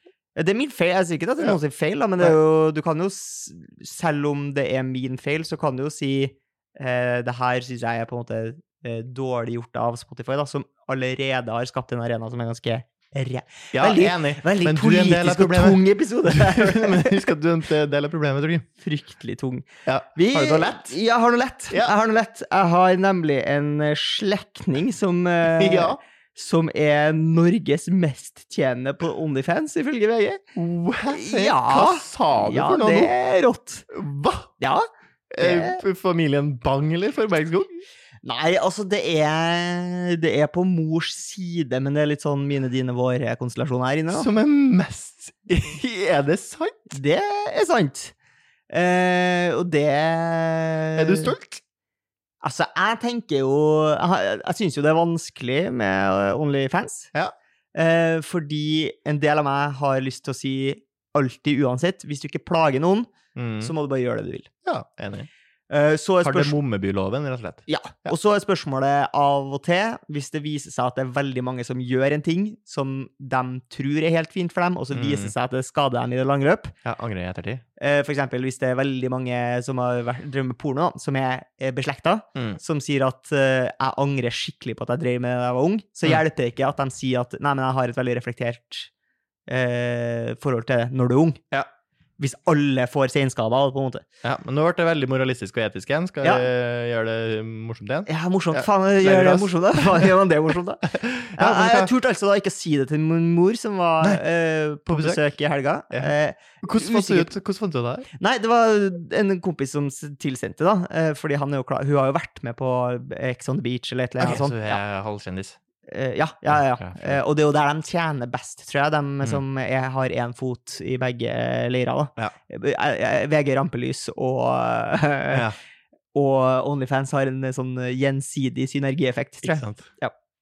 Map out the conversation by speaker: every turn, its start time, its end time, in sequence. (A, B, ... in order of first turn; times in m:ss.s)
0:00.4-0:17.3 A
0:13.7-0:18.6 B
0:18.8-0:30.4 A
0:19.9-0:21.0 B
0:25.5-0:26.0 B
0:30.5-0:33.1 B
0:31.0-0:33.9 A
0:33.9-0:34.5 B
0:34.6-0:34.9 A
0:35.3-0:37.8 B
0:35.4-0:35.8 A
0:38.2-0:44.3 A
0:44.1-0:46.9 B
0:46.9-0:48.1 A
0:48.7-0:51.3 A
0:51.0-0:51.6 B
0:52.4-0:57.1 A
0:57.8-1:04.5 A
1:03.4-1:03.7 B
1:04.6-1:05.3 B
1:05.7-1:06.6 A
1:06.2-1:08.1 B
1:07.7-1:16.8 A
1:14.9-1:15.3 B
1:16.8-1:17.6 B
1:17.8-1:28.9 A
1:29.5-1:31.4 A
1:32.2-1:34.0 A
1:34.2-1:40.1 B
1:38.0-1:47.3 A
1:40.9-1:41.9 B
1:44.9-1:45.3 B
1:45.9-1:48.1 B
1:48.2-1:54.8 A
1:54.2-1:55.6 B
1:55.9-2:05.5 A
1:56.5-1:57.2 B
2:05.3-2:05.6 B
2:06.1-2:10.1 A
2:09.4-2:09.9 B